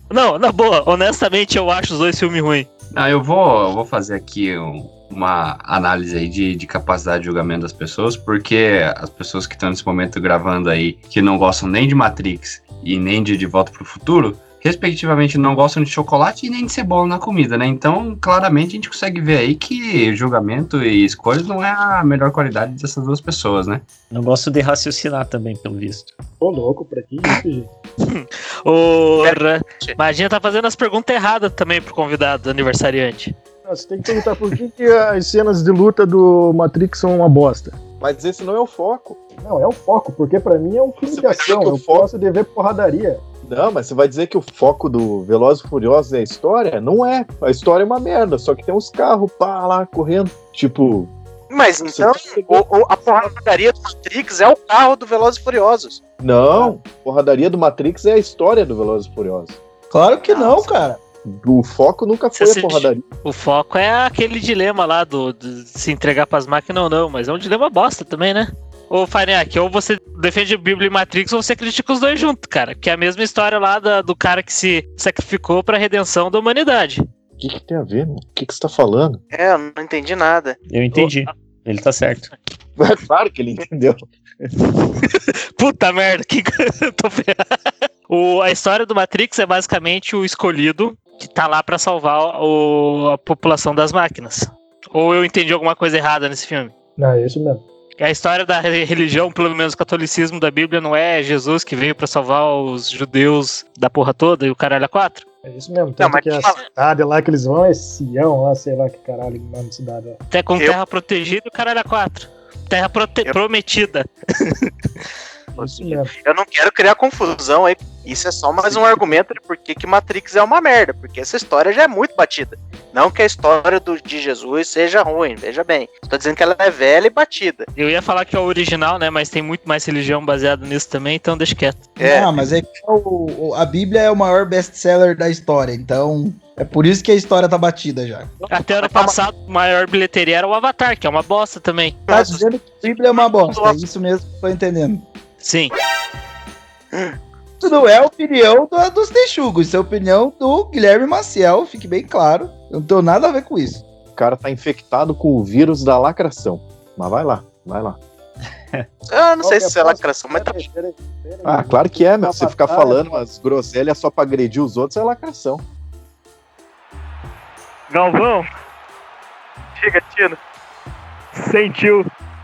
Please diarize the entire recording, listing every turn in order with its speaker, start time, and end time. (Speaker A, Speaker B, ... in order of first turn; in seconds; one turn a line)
Speaker A: 0.1-2.7
Speaker B: 2.9-23.8
Speaker C: 24.1-26.1
Speaker D: 26.4-27.7
Speaker A: 28.0-33.3
Speaker E: 29.2-29.9
Speaker D: 33.6-37.8
Speaker F: 38.0-39.2
Speaker D: 39.4-43.2
Speaker F: 41.0-42.1
Speaker F: 43.4-51.1
Speaker E: 51.5-56.0
Speaker F: 51.9-52.6
Speaker F: 56.2-59.6
Speaker G: 59.9-61.0
Speaker E: 60.3-60.7
Speaker F: 61.2-63.0
Speaker A: 62.3-77.0
Speaker F: 77.4-79.2
Speaker E: 79.3-80.6
Speaker C: 80.7-82.3
Speaker F: 82.8-84.5
Speaker A: 84.7-96.7
Speaker D: 97.0-97.6
Speaker A: 98.0-105.2
Speaker D: 105.4-110.2
Speaker E: 106.0-106.6
Speaker A: 110.3-114.1
Speaker D: 115.5-116.1
Speaker E: 115.6-127.7
Speaker A: 127.8-131.9
Speaker G: 131.9-138.3
Speaker E: 132.0-132.5
Speaker E: 138.4-139.2
Speaker A: 138.5-142.0
Speaker E: 142.1-143.8
Speaker G: 142.1-145.0
Speaker A: 145.4-145.7
Speaker G: 147.6-153.8
Speaker F: 154.2-158.0
Speaker E: 159.1-160.6
Speaker D: 159.4-163.2
Speaker F: 161.4-165.6
Speaker D: 168.1-168.4
Speaker E: 169.8-170.4